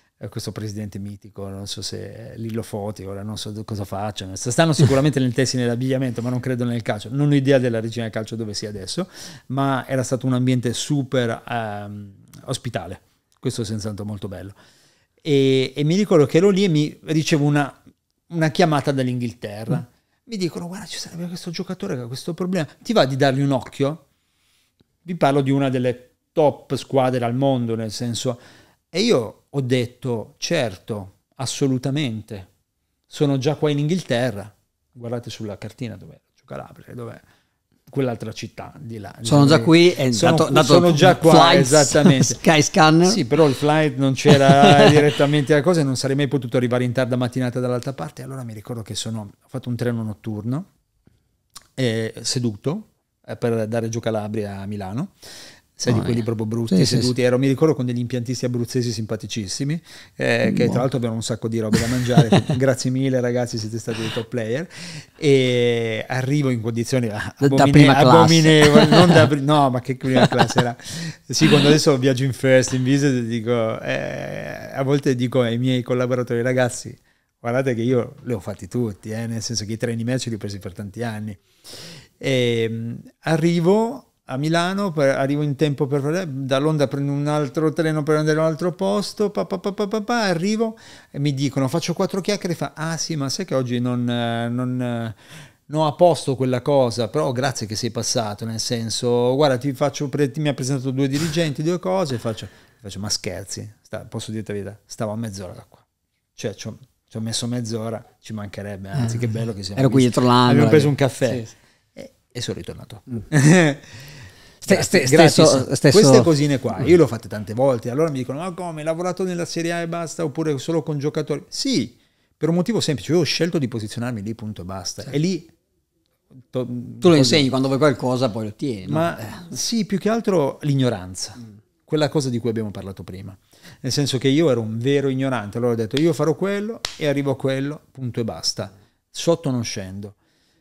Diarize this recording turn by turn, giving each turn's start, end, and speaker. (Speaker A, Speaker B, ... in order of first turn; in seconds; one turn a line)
Speaker A: 0.2-14.6
Speaker A: 15.2-17.8
Speaker A: 18.3-24.0
Speaker A: 25.1-28.4
Speaker A: 28.9-32.5
Speaker A: 33.1-37.2
Speaker A: 37.9-42.4
Speaker B: 39.2-43.2
Speaker A: 43.0-50.7
Speaker B: 44.5-45.0
Speaker A: 51.8-55.1
Speaker A: 55.8-81.4
Speaker B: 55.9-57.1
Speaker B: 60.5-60.8
Speaker B: 67.4-69.3
Speaker A: 82.2-105.8
Speaker A: 106.4-113.9
Speaker B: 109.8-111.5
Speaker B: 114.6-116.3
Speaker A: 114.7-125.5
Speaker A: 126.5-127.5
Speaker B: 127.0-129.4
Speaker A: 128.9-140.2